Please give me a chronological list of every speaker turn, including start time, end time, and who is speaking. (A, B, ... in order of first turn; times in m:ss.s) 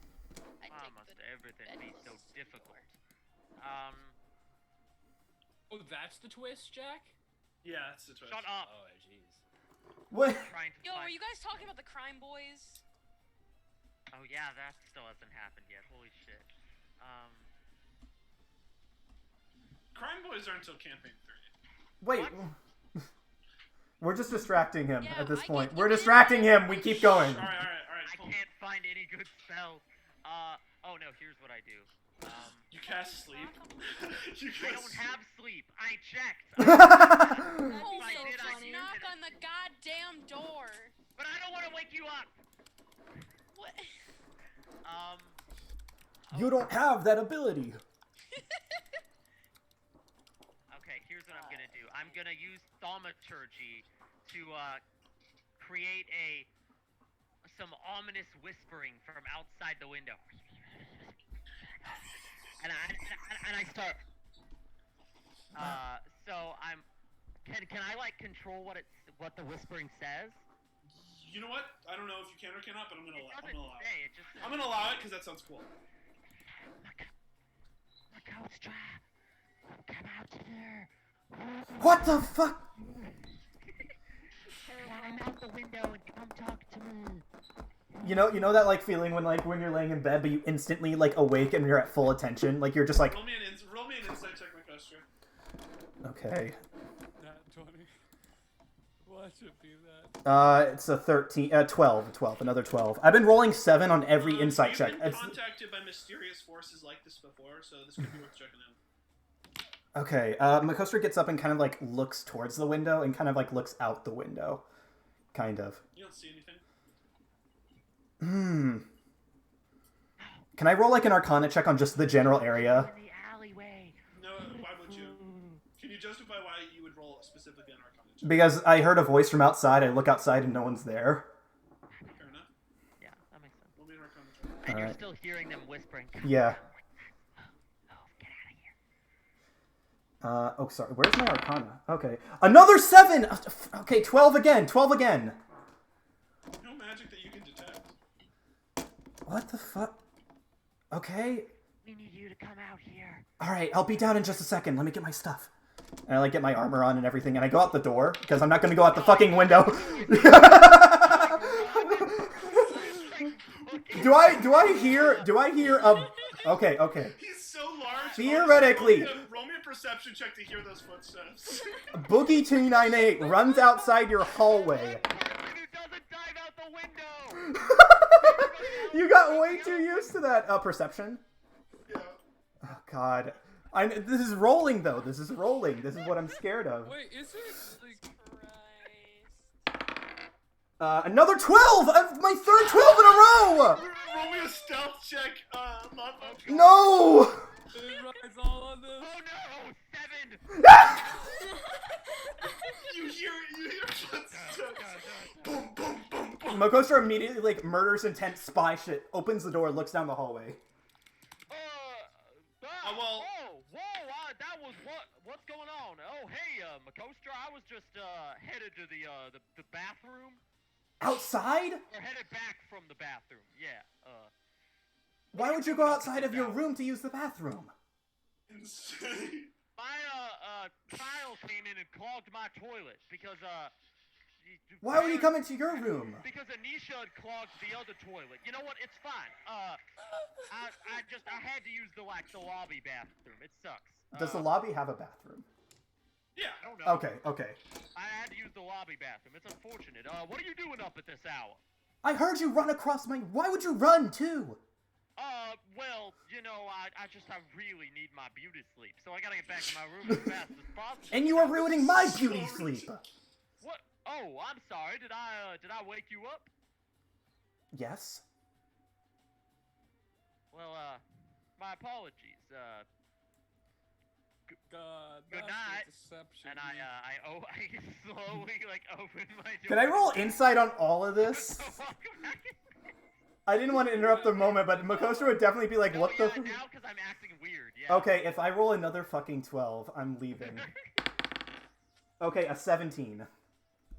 0:00.6-0:02.9 A
0:00.7-0:02.8 B
0:03.6-0:04.2 B
0:05.7-0:07.1 C
0:07.6-0:08.6 D
0:08.2-0:08.7 B
0:08.6-0:09.4 C
0:10.1-0:10.5 E
0:10.2-0:11.7 B
0:10.8-0:12.8 A
0:14.1-0:17.5 B
0:19.9-0:21.5 D
0:22.0-0:23.0 E
0:22.1-0:22.5 B
0:24.0-0:27.5 E
0:25.0-0:27.1 A
0:27.0-0:28.4 D
0:28.0-0:32.7 B
0:32.7-0:35.2 D
0:32.8-0:34.0 A
0:34.6-0:39.3 B
0:36.6-0:37.8 E
0:37.6-0:40.9 A
0:41.2-0:42.4 B
0:43.5-0:43.9 A
0:44.8-0:45.4 B
0:46.3-0:46.7 B
0:46.3-0:47.8 E
0:50.7-0:54.8 B
0:55.6-0:56.5 B
0:57.4-1:01.4 B
1:02.6-1:04.0 B
1:05.5-1:06.9 B
1:07.4-1:10.4 B
1:10.9-1:15.7 D
1:13.1-1:15.0 B
1:16.6-1:17.1 B
1:18.1-1:19.0 B
1:19.7-1:23.4 B
1:21.8-1:22.6 E
1:24.7-1:27.2 B
1:24.7-1:25.2 A
1:28.0-1:28.2 B
1:28.0-1:33.2 E
1:33.0-1:35.1 D
1:36.0-1:36.6 E
1:37.2-1:38.0 C
1:39.0-1:40.2 C
1:40.2-1:45.4 E
1:44.2-1:48.8 D
1:49.9-1:54.6 E
1:55.3-1:55.8 E
1:55.9-1:56.6 D
1:58.2-1:58.9 E
2:00.2-2:00.5 B
2:00.6-2:02.9 E
2:02.2-2:05.6 B
2:04.1-2:05.2 D
2:05.8-2:08.4 D
2:08.2-2:11.3 E
2:11.9-2:12.2 B
2:12.1-2:12.5 D
2:13.0-2:13.7 B
2:13.8-2:14.6 D
2:14.6-2:18.7 B
2:14.7-2:15.0 E
2:16.2-2:16.6 E
2:20.2-2:25.4 E
2:26.6-2:27.9 D
2:29.2-2:30.0 E
2:30.9-2:31.5 E
2:31.8-2:33.2 B
2:33.4-2:35.5 E
2:36.1-2:42.8 E
2:38.9-2:45.4 B
2:43.9-2:47.2 E
2:47.2-2:51.7 D
2:47.8-2:49.0 B
2:48.2-2:49.2 E
2:51.9-2:55.0 E
2:54.2-2:57.5 B
2:57.3-3:01.2 E
2:58.1-3:00.2 B
3:01.8-3:02.2 D
3:02.6-3:07.0 E
3:06.8-3:08.8 C
3:08.1-3:09.3 A
3:10.8-3:13.8 E
3:13.7-3:16.7 D
3:16.2-3:16.9 B
3:16.5-3:17.5 E
3:17.7-3:19.2 C
3:19.0-3:21.3 B
3:20.5-3:21.2 E
3:22.7-3:26.9 D
3:24.3-3:25.6 B
3:26.5-3:30.6 E
3:31.5-3:40.4 B
3:32.8-3:33.3 D
3:41.0-3:41.8 E
3:41.9-3:44.3 B
3:45.3-3:47.7 E
3:45.3-3:46.6 B
3:48.5-3:49.5 D
3:49.8-3:53.7 B
3:54.4-3:59.8 B
3:54.8-3:56.2 E
4:00.5-4:04.5 B
4:04.1-4:05.5 E
4:06.3-4:06.7 D
4:06.6-4:07.2 B
4:06.8-4:07.6 E
4:07.9-4:11.6 B
4:12.0-4:14.6 E
4:15.2-4:21.8 B
4:21.1-4:23.0 E
4:21.8-4:22.9 D
4:23.6-4:26.5 B
4:27.7-4:28.2 E
4:30.5-4:31.0 B
4:31.6-4:32.9 B
4:34.5-4:36.9 C
4:35.3-4:35.9 B
4:36.4-4:40.4 B
4:39.7-4:41.8 E
4:41.2-4:42.6 B
4:43.4-4:46.6 E
4:43.9-4:45.0 C
4:45.8-4:48.1 B
4:47.9-4:50.7 E
4:50.4-4:50.7 B
4:52.2-4:53.3 E